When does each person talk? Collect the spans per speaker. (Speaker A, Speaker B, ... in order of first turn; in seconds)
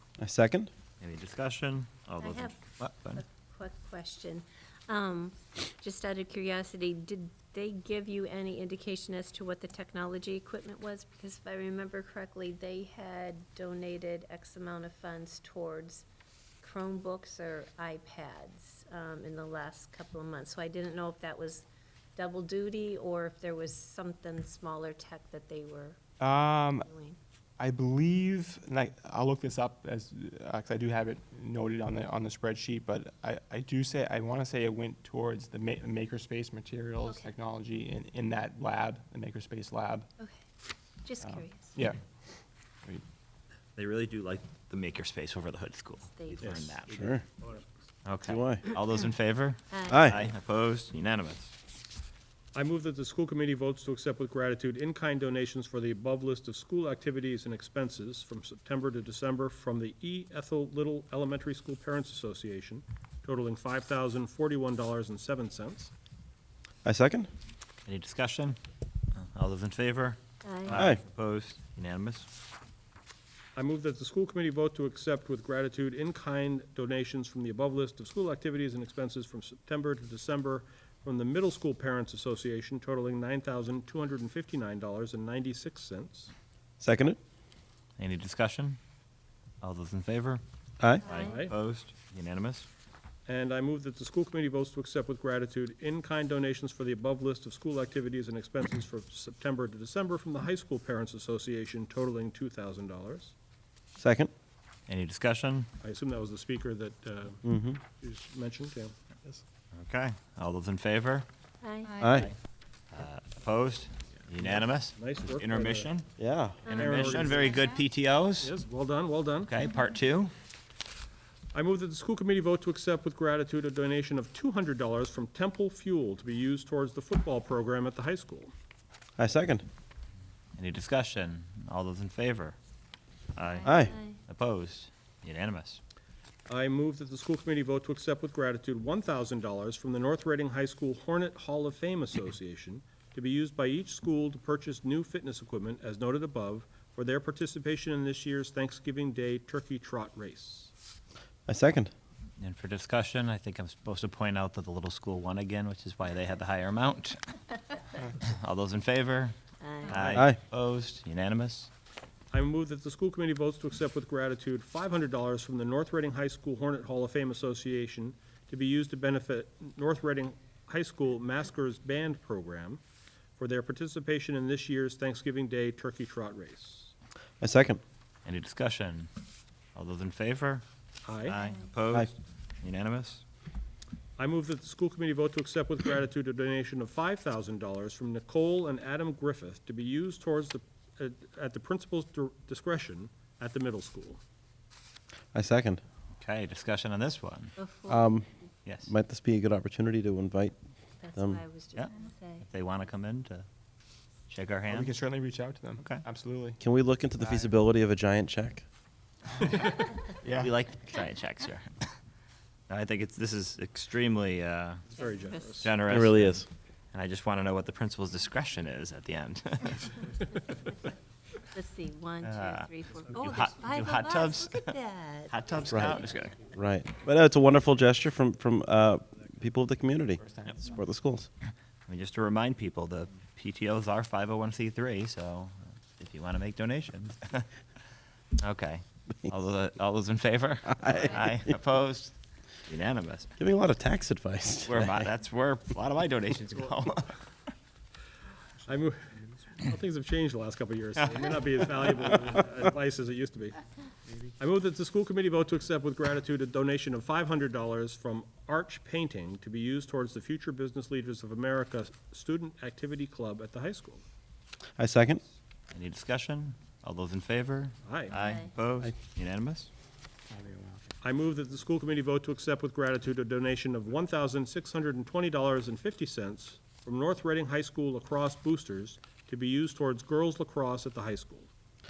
Speaker A: 0.2-0.7, 46.9-47.2, 48.2-48.6, 49.9-50.2, 66.8-67.3, 70.7-71.0, 86.8-87.2, 104.0-104.3, 107.4-107.8, 112.0-112.3, 116.2-117.0, 129.2-129.6, 133.6-133.9, 151.5-151.9, 159.9-160.4, 177.4-177.8, 195.3-195.8, 197.9-200.6, 201.1-201.4, 206.6-208.6, 215.8-216.5, 226.5-231.3, 240.7-241.2, 243.4-245.1, 264.8-265.2
Speaker B: 1.0-3.2, 43.8-47.1, 48.0-51.5, 67.8-68.6, 69.1-72.3, 88.0-88.8, 89.6-90.4, 91.0-92.7, 104.9-105.7, 109.7-111.2, 112.0-112.4, 112.9-116.1, 116.7-118.6, 119.4-120.3, 130.6-132.6, 133.3-135.8, 152.4-157.4, 158.2-161.7, 178.2-179.1, 179.7-180.6, 181.2-183.2, 196.2-197.5, 198.6-198.9, 201.7-203.5, 204.3-204.9, 205.8-206.0, 210.4-211.9, 212.7-214.8, 215.6-220.0, 222.2-224.7, 225.3-226.4, 231.9-237.5, 238.4-242.1, 242.7-243.3, 244.7-247.2, 265.7-269.7
Speaker C: 2.2-16.1, 16.6-27.2, 37.0-37.3, 41.0-41.8, 46.0-46.6, 49.7-50.0, 70.4-70.8, 91.0-91.3, 111.6-112.1, 116.6-117.6, 133.5-134.2, 159.6-160.1, 197.6-198.5, 201.0-202.4, 215.0-215.6, 221.5-225.3, 268.1-268.5
Speaker D: 26.2-26.9, 27.6-40.1, 41.3-42.0, 204.7-206.6, 207.2-207.5, 210.2-210.5, 230.2-230.7, 270.3-270.8
Speaker E: 46.4-47.6, 52.5-65.9, 73.5-86.3, 91.2-91.5, 93.3-103.3, 105.8-108.9, 114.4-115.9, 116.7-117.5, 118.4-119.5, 121.5-128.5, 136.5-150.7, 162.3-172.8, 173.4-176.9, 181.0-181.4, 184.2-194.2, 214.9-215.8, 248.7-253.6, 254.4-264.0, 267.8-268.2, 271.0-281.5